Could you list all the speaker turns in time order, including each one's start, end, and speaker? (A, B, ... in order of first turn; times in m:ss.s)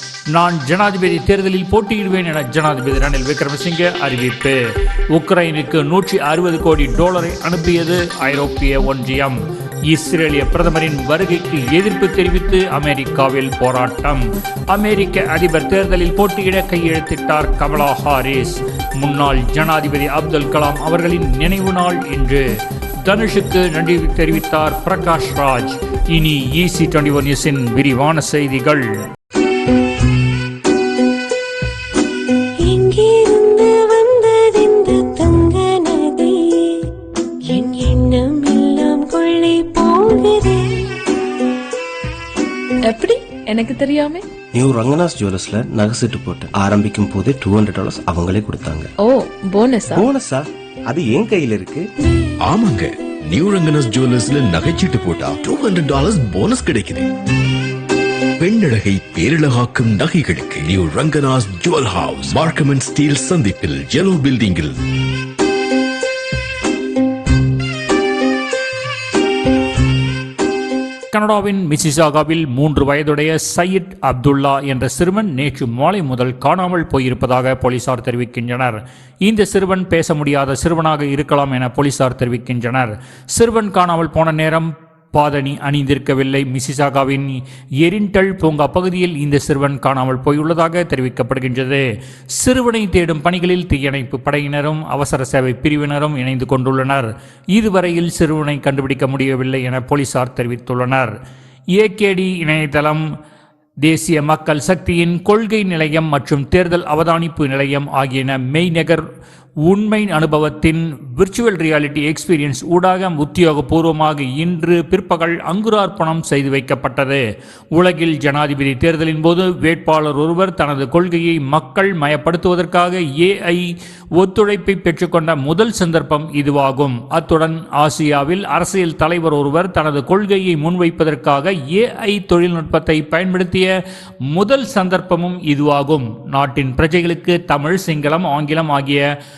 0:00.3-0:04.6 A
0:05.1-0:22.4 A
0:23.0-0:28.9 A
0:32.6-0:36.9 B
0:37.4-0:41.0 B
0:42.9-0:44.2 C
0:44.5-0:48.9 D
0:49.0-0:50.0 C
0:49.9-0:51.9 D
0:52.4-0:57.1 E
0:58.4-1:04.8 E
1:11.1-1:41.1 A
1:41.7-1:43.0 A
1:43.8-1:49.0 A
1:49.7-1:57.2 A
1:57.8-2:13.7 A
2:14.3-2:19.1 A